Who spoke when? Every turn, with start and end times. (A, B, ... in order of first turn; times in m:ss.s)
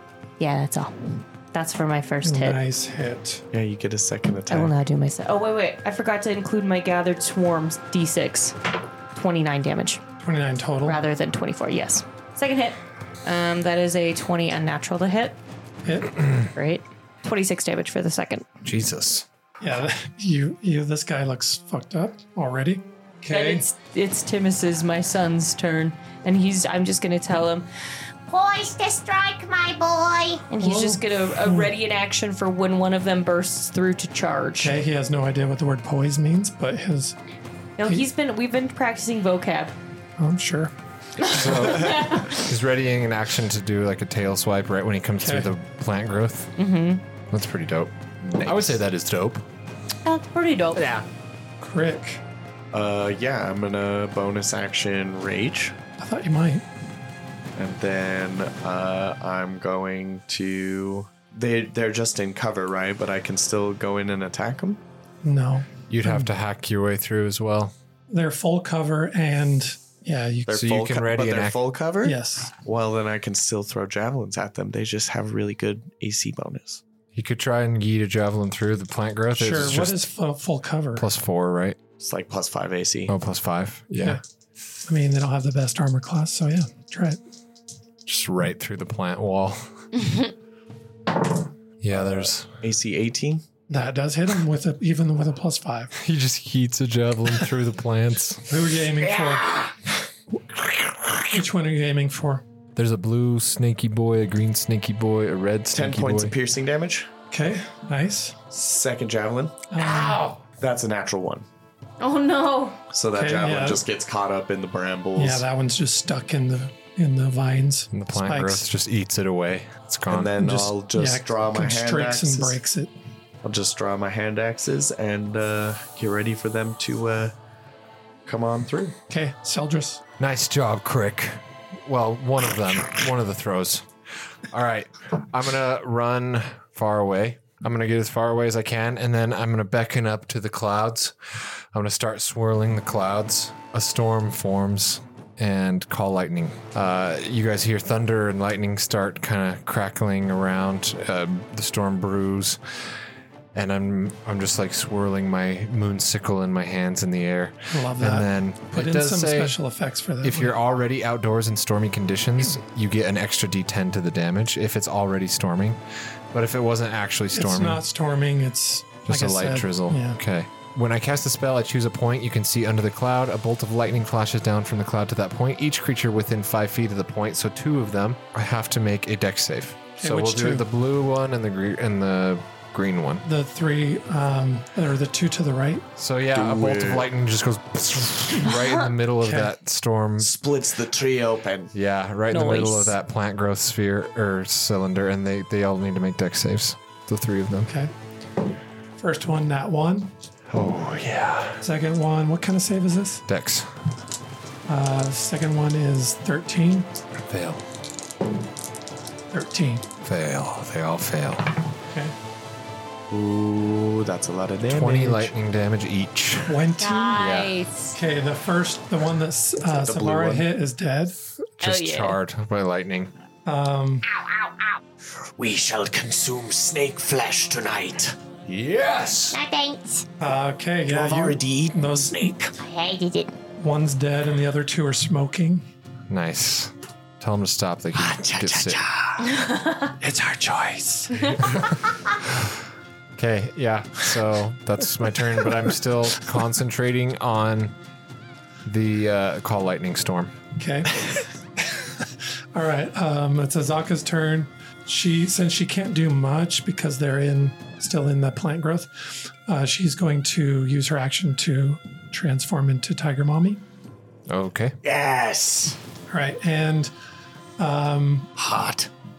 0:00.4-0:02.6 A
0:02.2-0:03.4 B
0:03.5-0:04.7 C
0:04.5-0:08.6 A
0:09.2-0:10.0 A
0:10.2-0:11.0 B
0:10.8-0:15.4 A
0:15.8-0:16.1 B
0:16.5-0:18.5 A
0:18.6-0:19.3 D
0:19.6-0:23.7 B
0:23.3-0:27.7 A
0:28.3-0:30.5 E
0:30.5-0:34.8 A
0:30.6-0:31.7 B
0:34.6-0:37.2 B
0:37.8-0:39.8 A
0:40.2-0:40.7 B
0:41.3-0:46.5 D
0:41.3-0:42.5 A
0:45.2-0:45.5 B
0:46.6-0:47.0 A
0:47.3-0:49.5 D
0:50.0-0:50.9 A
0:50.8-0:51.1 D
0:51.6-0:52.2 B
0:52.7-0:55.8 C
0:56.0-0:56.7 B
0:57.6-1:04.8 C
1:05.2-1:06.3 B
1:05.9-1:07.7 D
1:08.1-1:10.6 B
1:10.5-1:16.8 C
1:10.5-1:11.6 D
1:12.0-1:12.5 B
1:17.1-1:20.1 D
1:19.3-1:21.1 B
1:21.0-1:21.8 D
1:22.0-1:23.1 C
1:23.1-1:24.2 D
1:24.9-1:27.2 B
1:28.1-1:29.7 D
1:31.8-1:32.5 D
1:31.9-1:33.4 C
1:33.7-1:35.9 B
1:35.9-1:38.6 D
1:38.5-1:39.6 B
1:41.2-1:42.4 B
1:42.8-1:46.4 D
1:45.7-1:47.1 C
1:47.3-1:48.4 B
1:48.5-1:49.7 C
1:49.7-1:50.4 B
1:50.6-1:51.5 C
1:52.0-1:52.6 A
1:52.0-1:52.8 E
1:52.9-1:55.5 C
1:53.1-1:53.8 B
1:55.2-1:58.7 B
1:57.9-2:00.4 D
2:00.1-2:02.6 C
2:00.4-2:02.9 B
2:03.4-2:07.3 C
2:08.3-2:09.0 C
2:09.1-2:10.0 B
2:10.2-2:13.9 D
2:14.5-2:32.8 D
2:33.5-2:39.6 D
2:37.7-2:40.5 B
2:40.2-2:45.8 D
2:46.3-2:47.8 D
2:47.3-2:50.2 B
2:49.1-3:03.2 D
3:00.0-3:00.6 B
3:03.2-3:05.9 B
3:06.0-3:10.3 D
3:06.3-3:07.1 C
3:09.2-3:09.5 B
3:10.2-3:11.7 F
3:11.7-3:17.7 D
3:12.3-3:13.0 A
3:17.7-3:17.9 B
3:19.0-3:20.1 B
3:20.5-3:21.7 D
3:21.6-3:23.2 B
3:23.3-3:23.7 D
3:24.7-3:26.9 B
3:27.2-3:27.6 D
3:29.3-3:29.9 B
3:30.0-3:31.7 D
3:33.1-3:35.3 C
3:34.6-3:36.7 D
3:36.5-3:37.2 B
3:36.8-3:37.4 E
3:36.9-3:38.0 A
3:37.2-3:37.6 D
3:37.9-3:41.2 B
3:39.6-3:40.5 C
3:41.6-3:43.1 D
3:41.6-3:42.2 A
3:43.4-3:44.1 B
3:45.4-3:49.3 F
3:49.3-3:50.1 E
3:50.2-3:52.4 B
3:50.9-3:52.5 F
3:52.6-3:53.4 E
3:53.6-3:55.7 B
3:56.1-3:58.8 D
3:57.9-3:59.3 F
3:59.4-3:59.7 A
4:00.0-4:01.3 B
4:01.4-4:02.5 D
4:03.2-4:07.8 D
4:08.6-4:10.4 D
4:10.6-4:10.9 B
4:11.6-4:23.6 B
4:24.3-4:24.8 D
4:24.8-4:25.8 F
4:26.1-4:26.9 B
4:27.6-4:28.4 B
4:28.4-4:28.9 F